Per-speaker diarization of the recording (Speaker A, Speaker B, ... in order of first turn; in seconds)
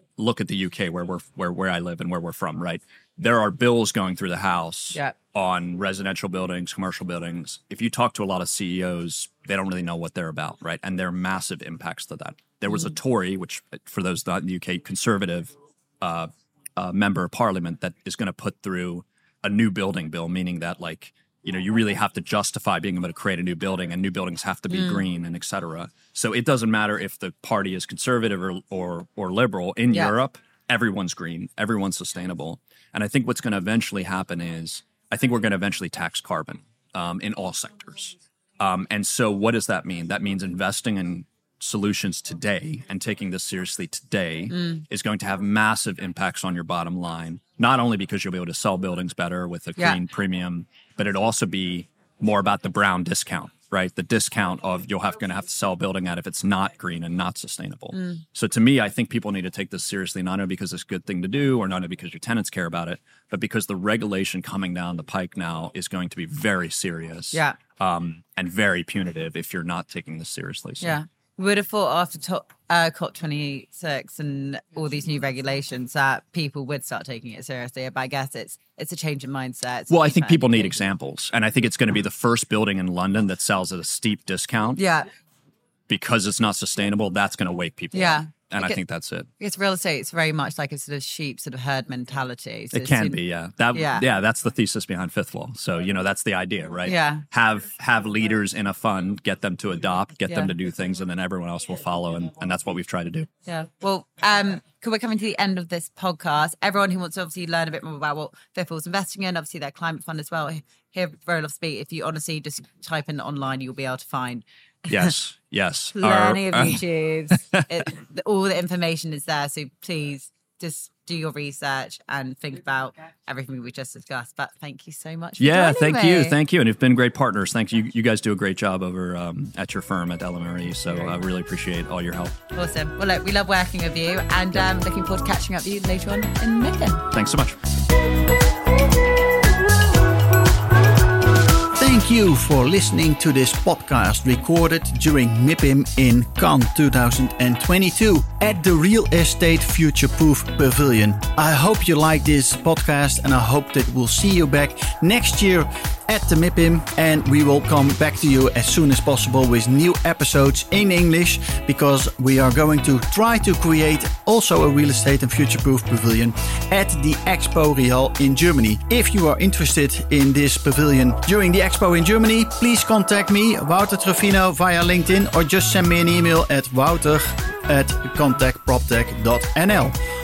Speaker A: 0.2-71.0, 79.9-84.8, 85.9-89.3, 92.7-103.3, 114.9-116.8, 117.3-117.8, 125.4-132.4, 137.1-137.6
Speaker B: 24.7-25.0, 44.5-44.8, 57.9-58.2, 67.3-67.6, 70.8-80.7, 84.8-85.1, 87.9-88.8, 89.4-93.2, 93.7-94.0, 96.8-97.2, 103.5-115.1, 115.9-126.4, 132.5-137.1
Speaker C: 141.7-179.9